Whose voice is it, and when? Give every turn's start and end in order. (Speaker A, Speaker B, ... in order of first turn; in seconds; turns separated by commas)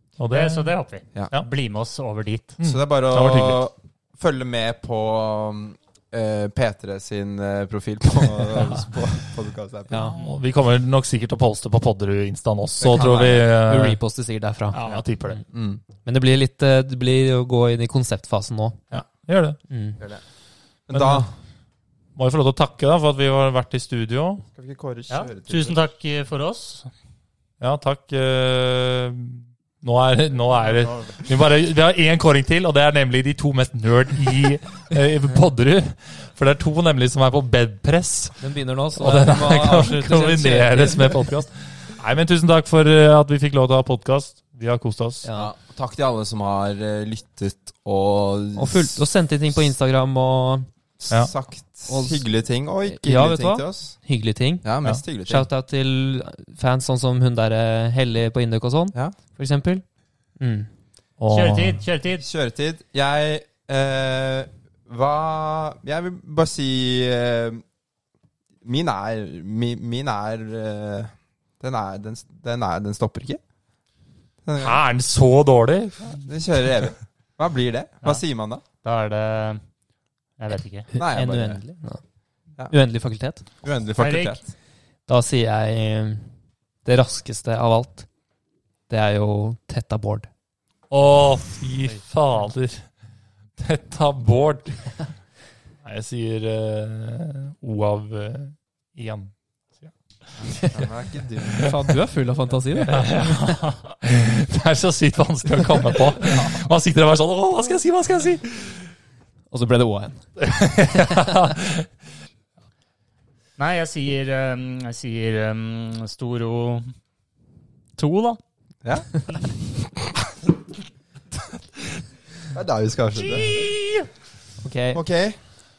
Speaker A: 0.2-0.8, Speaker B: 0.3-2.6, Speaker A: 2.6-3.6, Speaker C: 2.6-10.1, Speaker A: 8.6-8.8, Speaker D: 9.9-10.2, Speaker A: 10.1-14.0, Speaker C: 12.8-13.5, Speaker D: 12.9-14.8, Speaker A: 14.7-15.4, Speaker C: 15.5-15.8, Speaker D: 16.0-18.8, Speaker A: 18.9-19.6, Speaker D: 19.7-20.0, Speaker C: 20.9-21.3, Speaker A: 20.9-21.3, Speaker A: 22.2-24.4, Speaker C: 24.6-25.8, Speaker B: 25.1-26.9, Speaker A: 27.6-38.4, Speaker B: 30.6-31.1, Speaker D: 38.4-41.2, Speaker A: 39.0-45.2, Speaker D: 45.2-45.5, Speaker C: 45.4-49.0, Speaker D: 48.6-50.7, Speaker C: 51.0-54.0, Speaker D: 51.9-52.3, Speaker D: 52.8-54.7, Speaker C: 54.6-55.5, Speaker D: 55.2-59.8, Speaker D: 60.4-60.7, Speaker A: 61.2-61.8, Speaker B: 61.3-62.2, Speaker C: 62.2-67.6, Speaker C: 68.6-73.4, Speaker C: 74.4-74.8, Speaker A: 74.6-76.2, Speaker C: 76.2-78.6, Speaker B: 78.8-79.6, Speaker B: 80.4-80.9, Speaker C: 81.0-81.6, Speaker D: 81.0-82.0, Speaker D: 82.7-83.5, Speaker C: 83.6-84.5, Speaker B: 84.0-84.4, Speaker D: 85.1-88.1, Speaker D: 88.9-90.3, Speaker A: 90.9-92.9, Speaker A: 93.6-95.1, Speaker A: 95.8-99.9, Speaker C: 100.4-101.8, Speaker D: 101.6-103.1, Speaker A: 102.8-108.9, Speaker B: 103.2-103.8, Speaker D: 109.5-110.3, Speaker A: 110.4-111.9, Speaker B: 113.6-116.9, Speaker B: 118.0-118.4, Speaker C: 118.8-119.5, Speaker C: 122.5-123.5, Speaker D: 123.3-123.7, Speaker B: 123.5-123.8, Speaker D: 124.6-125.0, Speaker C: 124.9-125.4